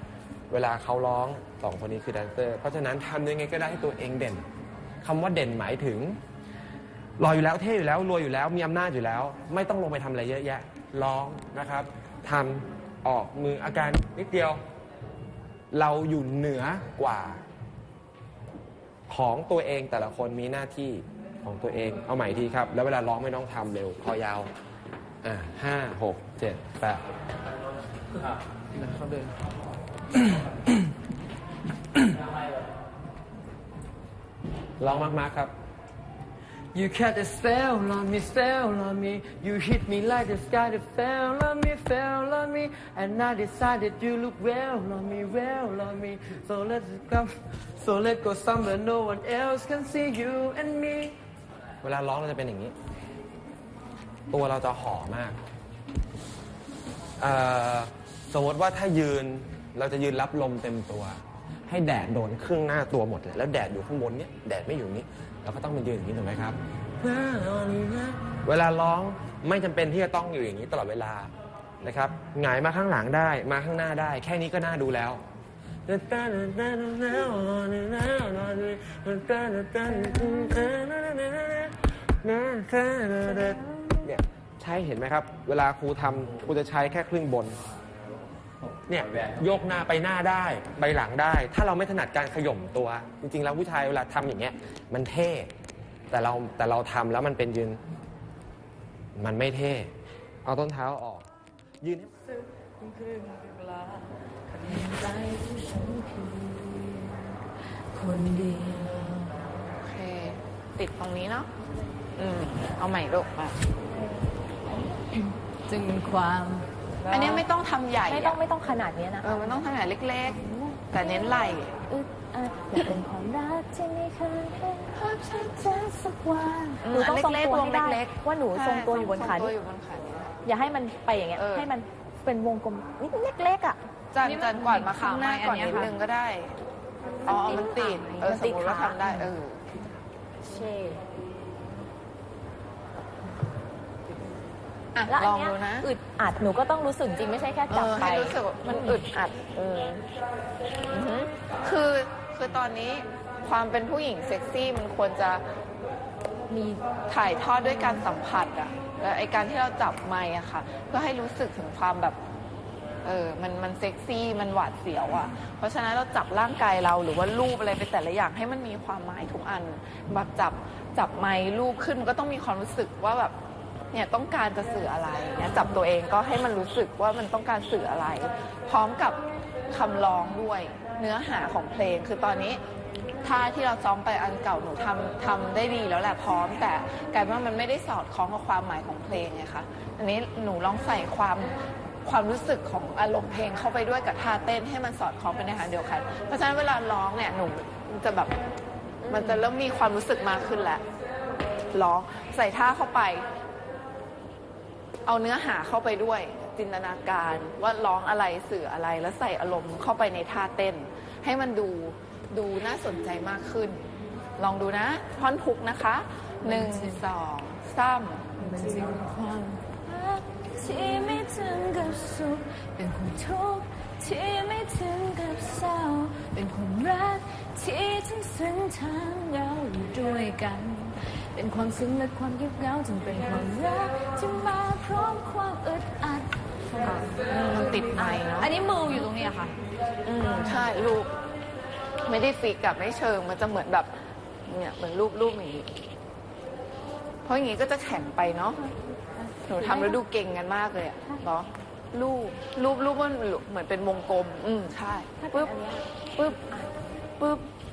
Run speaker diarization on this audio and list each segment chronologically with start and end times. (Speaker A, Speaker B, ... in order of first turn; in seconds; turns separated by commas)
Speaker A: 0.5-4.5, Speaker A: 5.0-6.2, Speaker A: 7.2-14.6, Speaker A: 15.7-17.4, Speaker A: 19.1-24.5, Speaker A: 25.2-27.0, Speaker B: 28.7-29.3, Speaker B: 30.1-30.9, Speaker A: 34.8-35.5, Speaker B: 36.7-51.1, Speaker A: 51.8-52.7, Speaker A: 54.3-55.4, Speaker A: 57.2-75.2, Speaker A: 75.9-87.6, Speaker A: 88.9-95.5, Speaker A: 96.1-97.8, Speaker A: 99.2-99.9, Speaker A: 100.4-101.2, Speaker A: 101.8-102.2, Speaker B: 102.8-104.9, Speaker C: 104.5-107.4, Speaker C: 107.9-109.4, Speaker D: 109.7-111.5, Speaker D: 112.2-113.6, Speaker E: 114.7-115.1, Speaker C: 115.2-117.2, Speaker D: 117.1-118.4, Speaker E: 118.1-119.6, Speaker D: 119.2-121.7, Speaker E: 120.2-121.0, Speaker E: 121.9-125.0, Speaker D: 122.7-123.0, Speaker C: 125.1-126.7, Speaker E: 126.6-129.5, Speaker D: 126.8-130.3, Speaker E: 130.4-135.9, Speaker D: 131.3-131.7, Speaker D: 134.1-136.6, Speaker E: 137.2-139.2, Speaker D: 137.2-139.6, Speaker E: 140.4-141.0, Speaker D: 144.9-145.9, Speaker E: 145.1-149.0, Speaker D: 147.7-150.1, Speaker D: 150.9-155.4, Speaker E: 156.5-156.8, Speaker D: 157.1-162.2, Speaker E: 157.5-158.0, Speaker D: 163.0-173.3, Speaker D: 173.9-182.6, Speaker D: 183.2-198.3, Speaker E: 199.0-199.5, Speaker D: 199.0-200.8, Speaker D: 201.7-203.3, Speaker D: 205.1-213.8, Speaker D: 214.4-218.3, Speaker C: 216.4-217.0, Speaker C: 218.4-236.3, Speaker E: 219.8-220.2, Speaker C: 236.8-237.2, Speaker E: 236.8-239.5, Speaker D: 237.3-238.5, Speaker D: 240.1-241.1, Speaker D: 242.1-245.7, Speaker D: 247.2-248.6, Speaker E: 249.1-250.0, Speaker D: 249.5-255.5, Speaker E: 255.2-256.8, Speaker D: 257.2-257.4